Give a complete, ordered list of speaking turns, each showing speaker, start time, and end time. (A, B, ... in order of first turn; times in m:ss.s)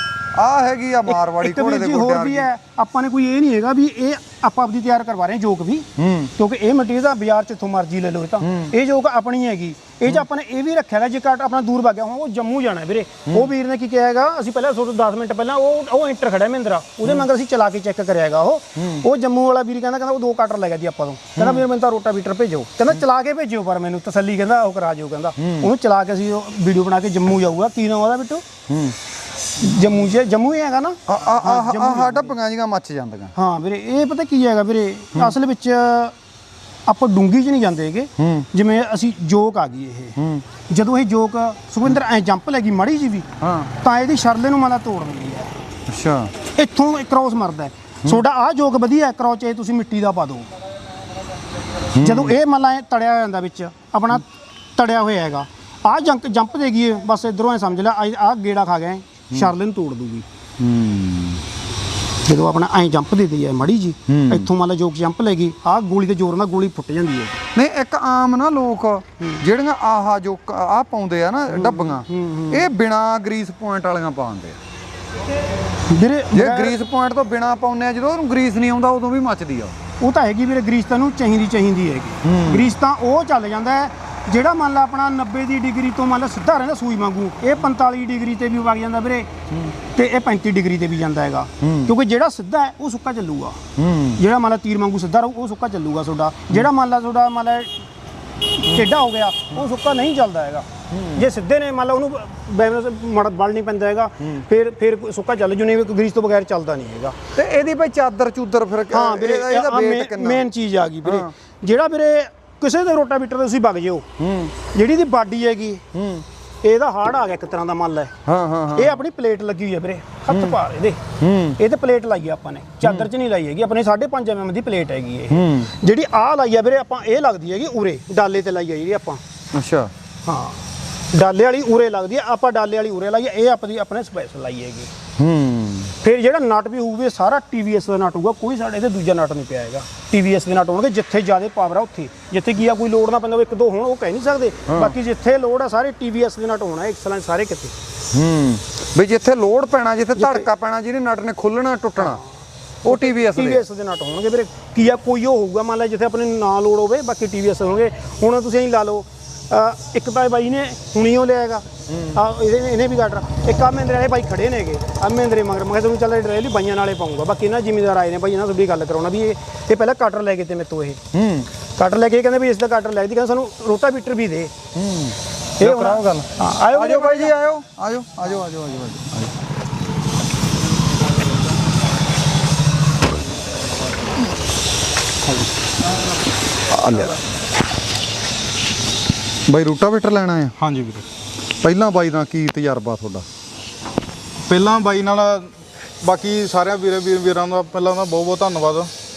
0:00.4-0:02.5 A
0:01.1-0:28.4 B
0:06.0-0:06.3 A
0:08.4-0:08.7 A
0:18.8-0:19.0 A
0:21.4-0:21.7 A
0:25.4-0:25.7 A
0:28.7-0:29.0 A
0:29.6-0:32.3 B
0:31.1-0:33.3 A
0:33.4-0:36.2 B
0:36.9-0:40.2 B
0:38.2-0:38.5 A
0:40.2-0:40.4 A
0:40.7-0:43.3 B
0:43.4-0:43.7 A
0:43.8-0:45.5 B
0:45.9-0:46.3 A
0:46.5-0:50.5 B
0:52.0-0:52.4 A
0:52.0-1:00.3 B
1:00.6-1:01.4 A
1:02.3-1:07.4 B
1:04.1-1:04.5 A
1:07.6-1:14.6 A
1:11.5-1:12.7 B
1:15.9-1:16.8 B
1:16.3-1:19.8 A
1:20.0-1:29.3 B
1:22.2-1:22.7 A
1:30.0-1:33.6 B
1:31.6-1:31.9 A
1:33.8-1:34.2 A
1:34.2-1:37.7 B
1:38.5-1:47.2 B
1:40.9-1:41.2 A
1:47.4-1:50.5 A
1:48.9-1:54.1 B
1:51.0-1:51.3 A
1:54.2-1:54.5 A
1:54.7-1:55.8 B
1:55.9-1:56.2 A
1:56.6-1:58.1 B
1:58.3-1:59.0 A
1:58.7-2:01.0 B
2:00.3-2:00.6 A
2:01.2-2:01.6 A
2:01.6-2:09.2 B
2:02.8-2:03.1 A
2:05.3-2:05.7 A
2:09.5-2:09.9 A
2:10.3-2:10.6 B
2:11.1-2:14.9 B
2:15.2-2:15.9 A
2:16.0-2:27.7 B
2:24.7-2:25.0 A
2:28.1-2:32.2 A
2:30.2-2:30.5 B
2:32.0-2:32.3 B
2:32.8-2:33.6 A
2:32.8-2:51.0 B
2:41.9-2:42.2 A
2:51.1-2:51.5 A
2:51.8-2:54.5 B
2:54.7-2:59.3 A
2:55.6-2:57.4 B
3:06.7-3:07.2 A
3:09.5-3:10.6 A
3:10.6-3:11.0 C
3:11.6-3:13.3 A
3:14.5-3:18.9 C